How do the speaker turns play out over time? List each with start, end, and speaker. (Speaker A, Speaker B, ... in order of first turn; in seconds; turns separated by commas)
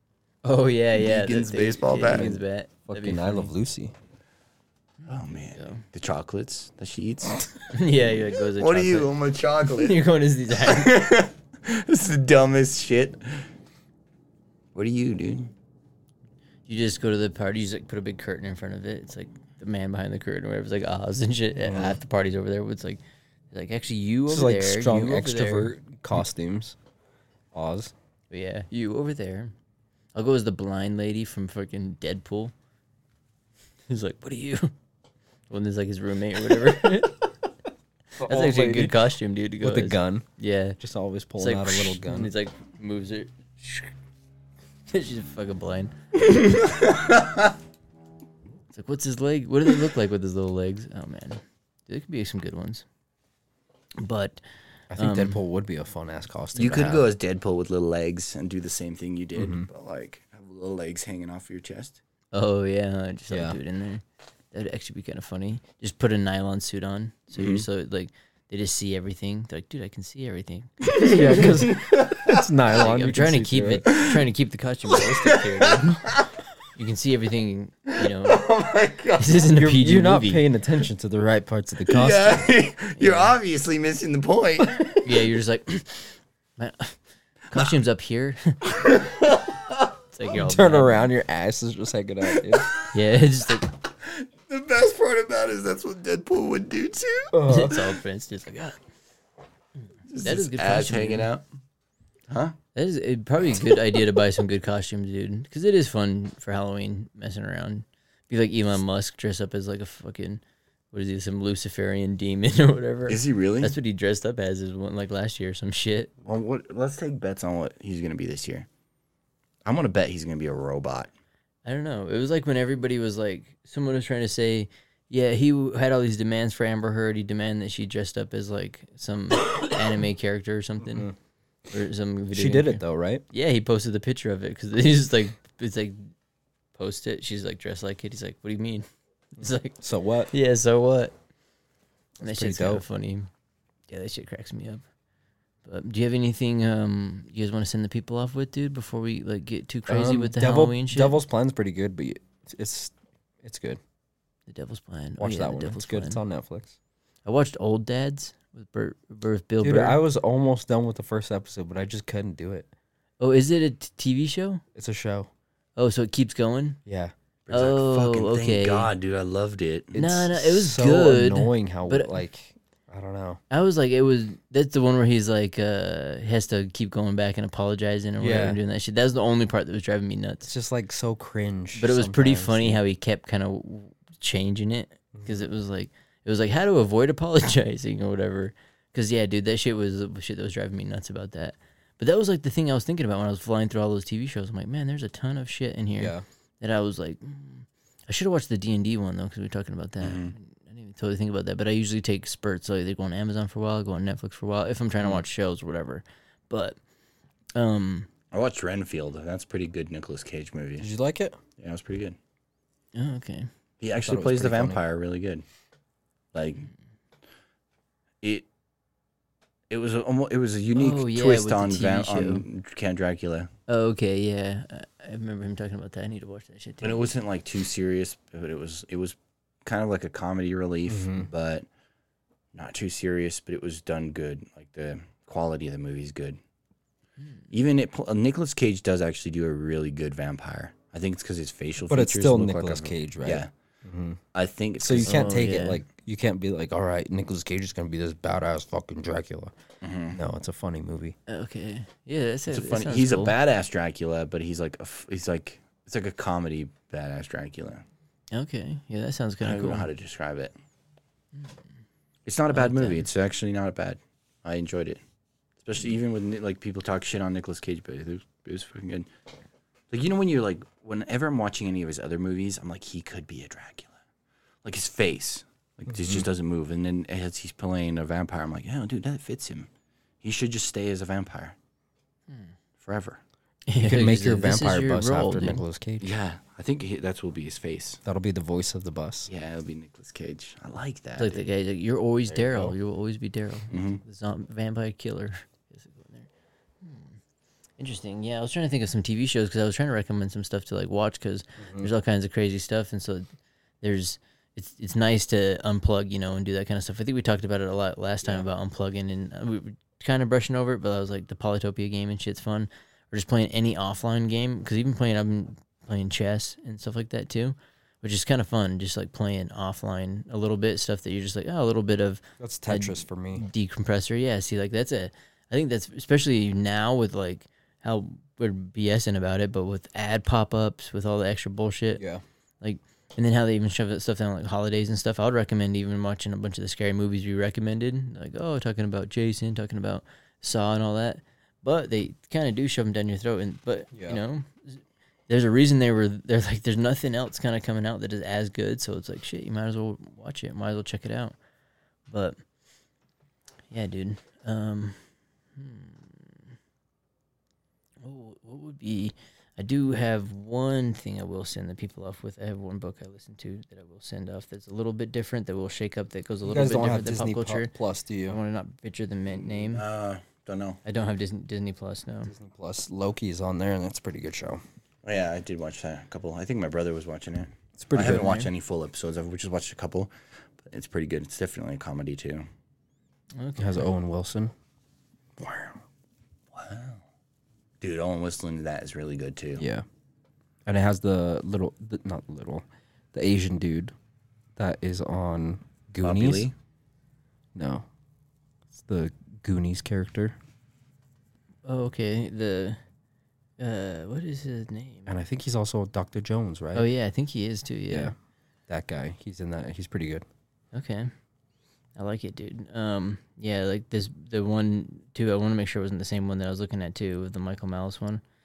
Speaker A: 0.5-3.5, Speaker B: 0.9-2.3, Speaker C: 2.1-3.9, Speaker A: 5.0-5.8, Speaker B: 5.1-7.4, Speaker A: 7.7-9.1, Speaker B: 8.5-10.0, Speaker A: 9.7-11.0, Speaker B: 10.5-13.5, Speaker B: 14.7-15.5, Speaker A: 16.7-25.8, Speaker C: 21.6-22.0, Speaker C: 24.3-26.8, Speaker C: 27.5-27.9, Speaker A: 28.3-29.5, Speaker A: 30.1-32.5, Speaker A: 33.9-34.7, Speaker A: 35.5-37.2, Speaker C: 38.2-40.3, Speaker A: 38.2-40.8, Speaker C: 40.8-42.3, Speaker A: 41.4-43.9, Speaker A: 44.9-46.4, Speaker B: 46.3-47.5, Speaker A: 48.7-52.9, Speaker A: 54.0-54.4, Speaker C: 54.9-57.1, Speaker A: 55.0-55.4, Speaker B: 56.5-62.0, Speaker C: 59.4-59.6, Speaker A: 62.3-71.5, Speaker C: 63.3-63.6, Speaker B: 67.3-67.7, Speaker B: 70.9-72.4, Speaker C: 70.9-73.9, Speaker A: 72.8-76.1, Speaker B: 73.9-74.2, Speaker B: 74.9-76.3, Speaker A: 76.7-78.5, Speaker B: 78.0-79.4, Speaker A: 79.2-80.4, Speaker C: 79.6-82.4, Speaker B: 81.8-85.1, Speaker A: 83.0-83.3, Speaker A: 85.0-88.8, Speaker B: 88.8-89.8, Speaker A: 90.1-91.1, Speaker C: 90.3-92.7, Speaker A: 92.9-93.7, Speaker B: 94.0-97.8, Speaker C: 97.3-97.8, Speaker A: 97.5-98.8, Speaker B: 100.1-101.4, Speaker A: 100.2-101.3, Speaker B: 102.3-102.6, Speaker A: 102.8-116.1, Speaker B: 113.1-113.8, Speaker B: 116.2-118.7, Speaker B: 119.6-121.1, Speaker A: 121.6-131.1, Speaker C: 130.8-131.1, Speaker A: 131.7-136.1, Speaker C: 132.3-133.2, Speaker A: 136.8-139.8, Speaker C: 139.8-140.3, Speaker A: 140.3-141.1, Speaker C: 142.2-142.8, Speaker A: 142.2-143.3, Speaker A: 143.9-144.8, Speaker A: 145.6-151.2, Speaker C: 149.9-153.8, Speaker A: 154.5-156.2, Speaker C: 155.2-156.8, Speaker A: 157.2-160.0, Speaker C: 159.6-162.7, Speaker A: 163.2-164.6, Speaker C: 164.8-165.3, Speaker A: 165.8-166.8, Speaker C: 166.9-167.1, Speaker B: 167.5-169.9, Speaker A: 167.5-168.9, Speaker C: 169.9-173.4, Speaker A: 169.9-172.2, Speaker A: 173.5-180.5, Speaker C: 178.2-178.6, Speaker C: 180.4-182.8, Speaker A: 181.8-206.8, Speaker C: 185.1-185.5, Speaker C: 196.0-196.2, Speaker B: 200.0-200.3, Speaker A: 207.6-208.1, Speaker B: 208.3-210.9, Speaker C: 210.8-211.4, Speaker B: 211.6-212.2, Speaker A: 212.9-213.5, Speaker B: 213.8-215.4, Speaker C: 214.0-214.8, Speaker B: 216.3-216.7, Speaker B: 218.2-218.5, Speaker B: 219.7-223.5, Speaker A: 220.8-222.4, Speaker A: 223.7-227.1, Speaker B: 226.8-231.7, Speaker C: 230.9-231.3, Speaker B: 232.5-236.4, Speaker B: 237.5-243.5, Speaker C: 241.9-244.2, Speaker B: 244.3-245.4, Speaker C: 244.8-249.5, Speaker A: 245.1-245.8, Speaker B: 249.8-250.2, Speaker C: 250.1-251.2, Speaker A: 251.3-253.4, Speaker B: 252.5-257.8, Speaker A: 258.3-259.9, Speaker B: 259.4-260.5, Speaker B: 262.3-265.0, Speaker A: 262.5-263.1, Speaker B: 265.6-269.1, Speaker B: 269.9-274.0, Speaker B: 274.6-279.7, Speaker C: 275.9-276.3, Speaker B: 280.2-281.6, Speaker B: 282.8-283.2, Speaker A: 283.7-285.6, Speaker C: 283.8-286.1, Speaker B: 286.0-288.0, Speaker C: 288.1-289.3, Speaker B: 289.3-291.4, Speaker A: 291.2-296.3, Speaker C: 292.4-292.7, Speaker B: 293.7-294.0, Speaker A: 296.8-297.2, Speaker A: 297.8-303.3, Speaker A: 303.8-332.0, Speaker C: 322.4-323.4, Speaker C: 332.0-332.2, Speaker A: 332.6-351.4, Speaker C: 343.9-344.2, Speaker A: 352.1-352.4, Speaker A: 353.7-356.4, Speaker A: 358.0-367.7, Speaker C: 366.4-368.4, Speaker A: 368.3-369.9, Speaker B: 369.3-370.8, Speaker A: 370.9-372.3, Speaker C: 372.3-374.6, Speaker B: 375.0-382.4, Speaker C: 377.8-378.3, Speaker A: 378.0-378.5, Speaker A: 383.4-383.9, Speaker C: 383.6-384.5, Speaker C: 385.4-385.8, Speaker B: 386.5-387.0, Speaker B: 387.8-389.6, Speaker C: 389.6-389.8, Speaker C: 390.6-393.9, Speaker C: 394.6-396.5, Speaker B: 396.0-396.5, Speaker C: 397.6-397.9, Speaker C: 398.8-400.4, Speaker A: 401.6-402.8, Speaker A: 403.6-405.1, Speaker C: 405.1-406.9, Speaker A: 406.7-408.1, Speaker C: 408.7-410.2, Speaker A: 410.7-411.1, Speaker A: 411.9-418.2